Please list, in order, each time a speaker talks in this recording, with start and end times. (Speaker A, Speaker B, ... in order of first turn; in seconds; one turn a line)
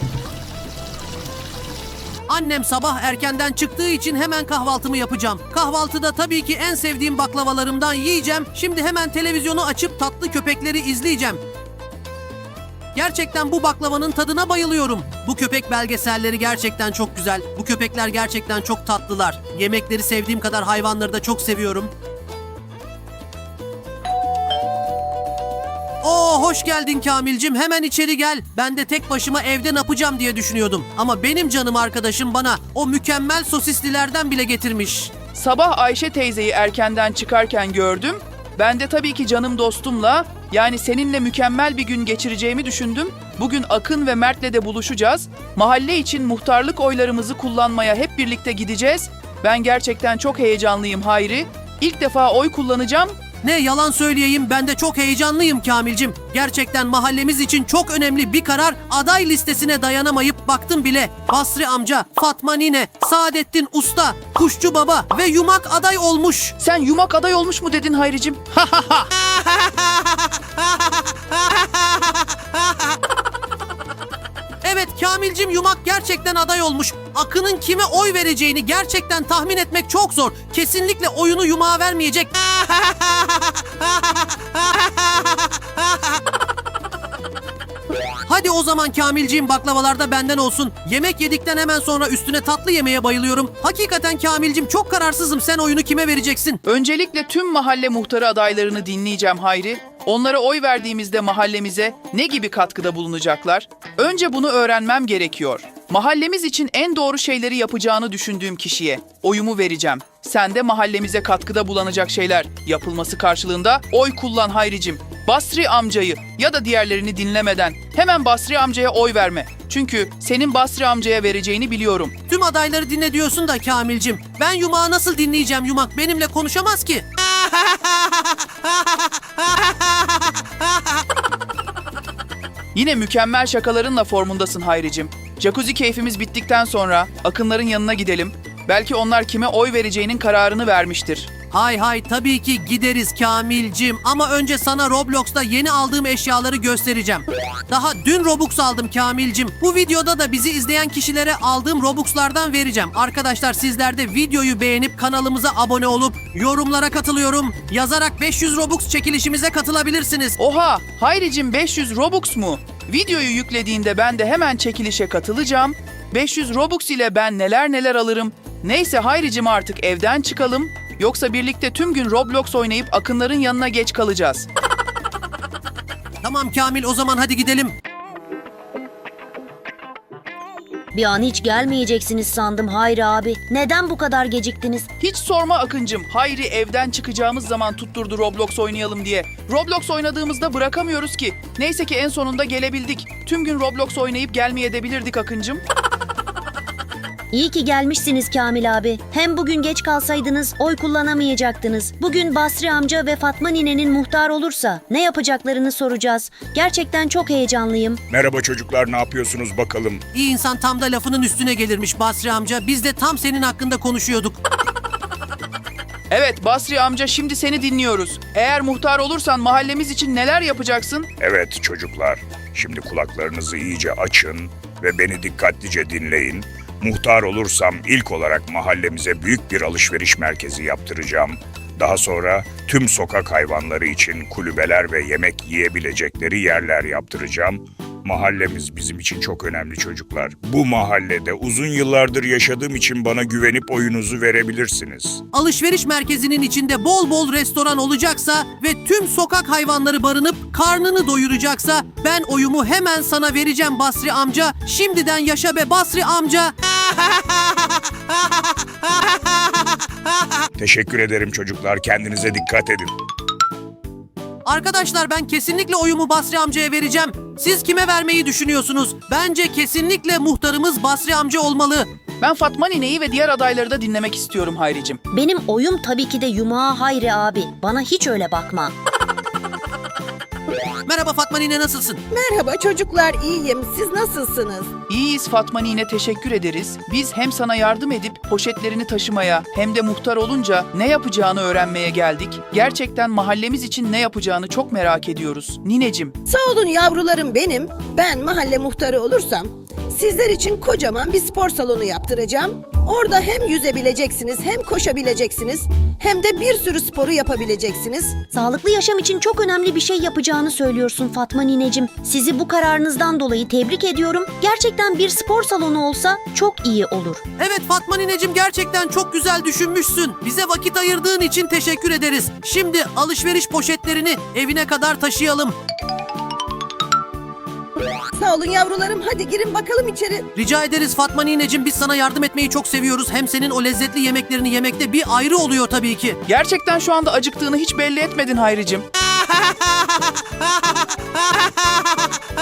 Speaker A: 2.3-11.4
Speaker A: 12.9-21.9
Speaker A: 26.0-35.1
Speaker B: 35.3-53.2
Speaker A: 53.4-66.5
Speaker B: 66.6-69.0
Speaker A: 69.2-69.6
Speaker A: 74.6-83.0
Speaker A: 88.2-96.6
Speaker B: 96.7-122.1
Speaker A: 122.3-127.0
Speaker B: 132.7-141.3
Speaker A: 141.5-160.4
Speaker B: 160.4-174.5
Speaker A: 176.2-177.7
Speaker C: 180.9-184.9
Speaker B: 185.0-195.6
Speaker C: 197.3-208.0
Speaker D: 208.1-210.0
Speaker A: 210.1-214.4
Speaker B: 216.1-221.1
Speaker D: 221.2-245.2
Speaker A: 245.3-256.5
Speaker D: 260.6-262.9
Speaker A: 264.4-271.9
Speaker B: 272.2-275.0
Speaker C: 275.1-278.7
Speaker A: 280.8-282.0
Speaker E: 282.1-284.8
Speaker B: 284.9-296.1
Speaker E: 296.2-308.3
Speaker C: 308.3-317.2
Speaker A: 317.4-325.6
Speaker E: 328.1-330.3
Speaker A: 330.4-336.2
Speaker B: 336.3-338.9